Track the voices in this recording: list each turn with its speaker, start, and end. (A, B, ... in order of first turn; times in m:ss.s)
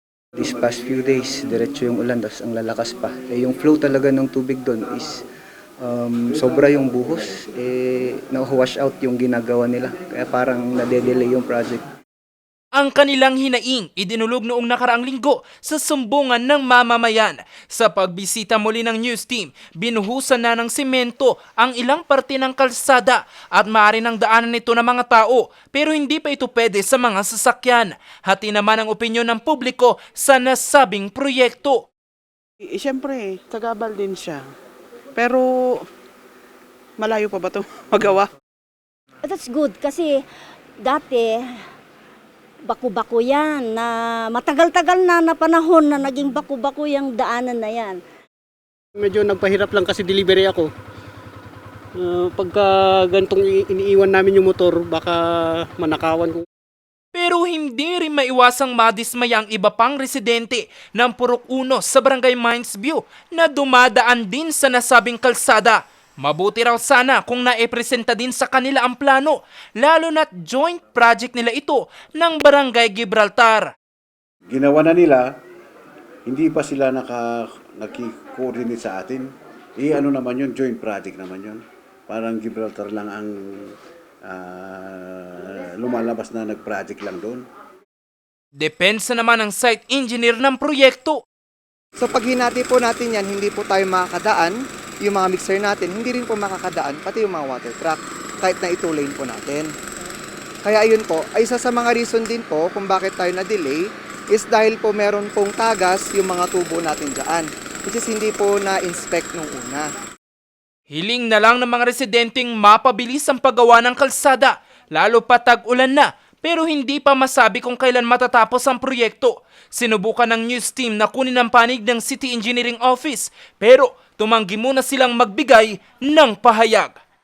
0:00.4-0:05.2 A
0:05.8-0:11.8 A
0:12.7-0:31.8 B
0:32.6-0:34.4 C
0:35.2-0:35.8 C
0:37.0-0:38.3 C
0:39.2-0:40.2 D
0:40.8-0:41.4 D
0:42.6-0:48.0 D
0:49.0-0:50.7 E
0:52.0-0:56.4 E
0:57.1-1:13.7 B
1:14.5-1:15.2 F
1:16.3-1:23.8 F
1:24.3-1:27.4 F
1:28.6-1:31.2 B
1:32.0-1:39.7 G
1:40.6-1:49.9 G
1:50.9-2:07.0 B